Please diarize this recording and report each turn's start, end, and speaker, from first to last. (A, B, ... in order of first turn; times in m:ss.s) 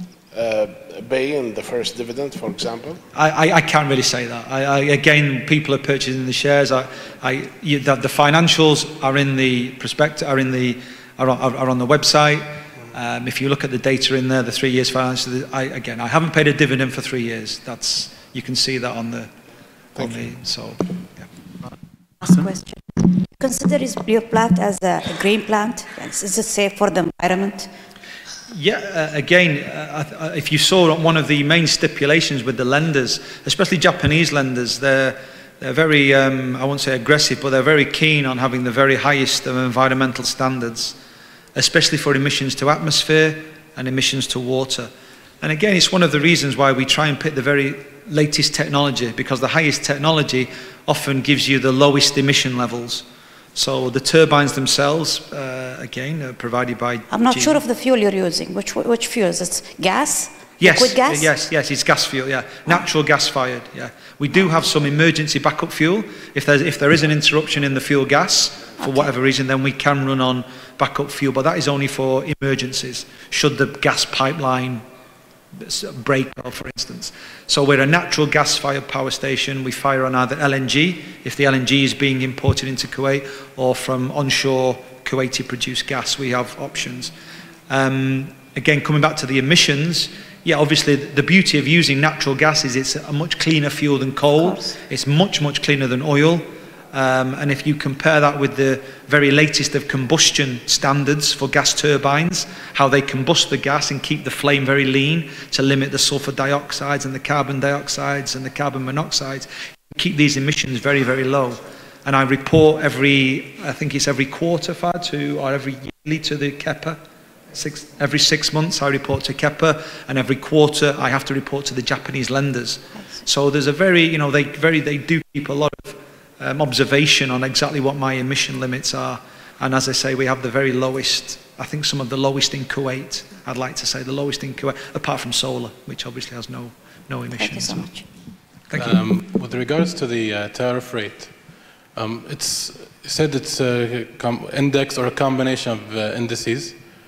0:00.3-0:03.0 A
0:03.1-0:19.3 B
0:20.0-0:20.2 A
0:20.0-0:21.3 B
0:22.2-0:27.7 C
0:28.5-0:41.0 B
0:41.5-0:44.9 B
0:45.4-0:57.6 B
0:57.1-1:01.3 C
1:00.6-1:14.8 B
1:15.5-1:27.1 B
1:27.7-1:57.0 B
1:34.4-1:34.7 C
1:57.5-2:17.9 B
2:17.3-2:18.1 C
2:18.7-2:19.0 B
2:18.8-2:26.8 D